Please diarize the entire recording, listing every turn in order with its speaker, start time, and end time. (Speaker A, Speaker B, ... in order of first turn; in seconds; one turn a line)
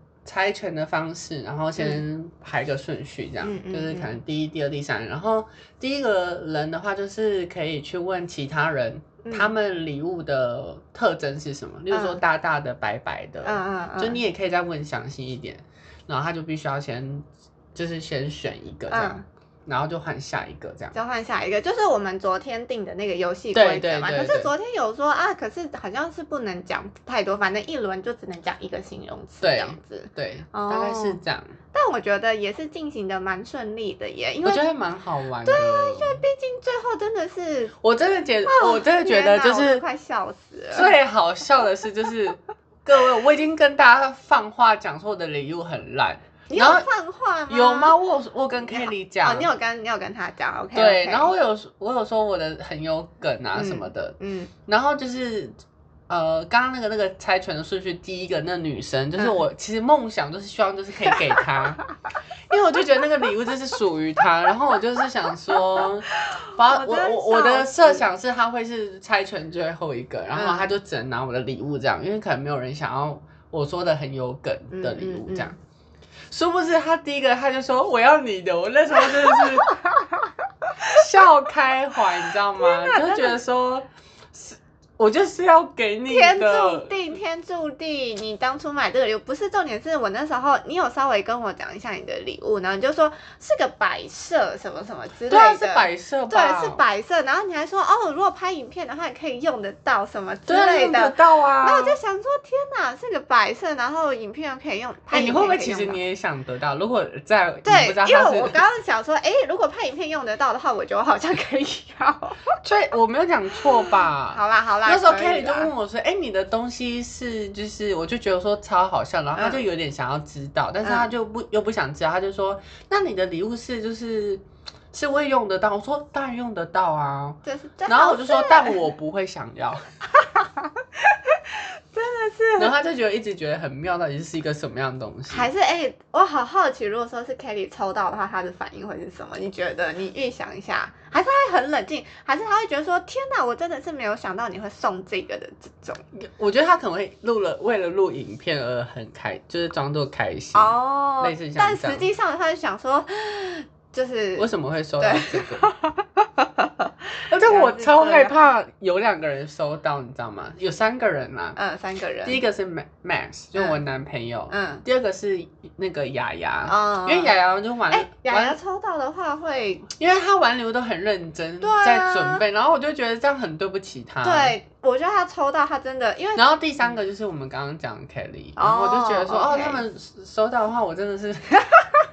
Speaker A: 0.2-20.9
Speaker B: 3.4-4.2
Speaker B: 9.2-9.5
Speaker B: 11.9-12.2
Speaker B: 13.4-14.2
Speaker B: 18.9-19.2
Speaker B: 20.9-31.2
Speaker A: 23.5-24.5
Speaker A: 29.4-31.6
Speaker B: 31.7-34.6
Speaker A: 34.4-36.2
Speaker B: 35.4-37.7
Speaker A: 37.8-39.8
Speaker B: 38.5-40.9
Speaker A: 40.7-46.9
Speaker B: 46.5-47.9
Speaker A: 47.5-49.5
Speaker B: 48.7-51.3
Speaker A: 50.7-54.1
Speaker B: 53.5-54.5
Speaker A: 54.7-55.6
Speaker A: 56.1-61.8
Speaker B: 59.1-59.4
Speaker A: 62.5-75.5
Speaker B: 65.8-68.0
Speaker B: 70.3-70.7
Speaker B: 74.7-75.5
Speaker A: 76.3-79.7
Speaker B: 79.2-80.9
Speaker A: 80.8-87.2
Speaker B: 82.6-83.3
Speaker B: 86.1-106.0
Speaker A: 95.3-96.8
Speaker A: 100.5-102.0
Speaker A: 105.1-108.6
Speaker B: 107.6-112.6
Speaker A: 112.6-129.8
Speaker B: 114.3-115.7
Speaker B: 119.3-119.6
Speaker B: 120.8-121.1
Speaker B: 127.4-128.8
Speaker B: 130.1-132.7
Speaker A: 132.6-135.5
Speaker B: 135.3-146.0
Speaker A: 146.2-152.1
Speaker B: 150.5-158.3
Speaker A: 154.4-155.7
Speaker A: 157.2-161.6
Speaker B: 161.6-162.4
Speaker A: 162.2-168.6
Speaker B: 164.5-164.8
Speaker B: 166.7-167.3
Speaker B: 167.9-169.9
Speaker A: 170.0-174.6
Speaker B: 171.6-172.4
Speaker B: 174.2-176.9
Speaker A: 176.3-181.7
Speaker B: 178.6-179.8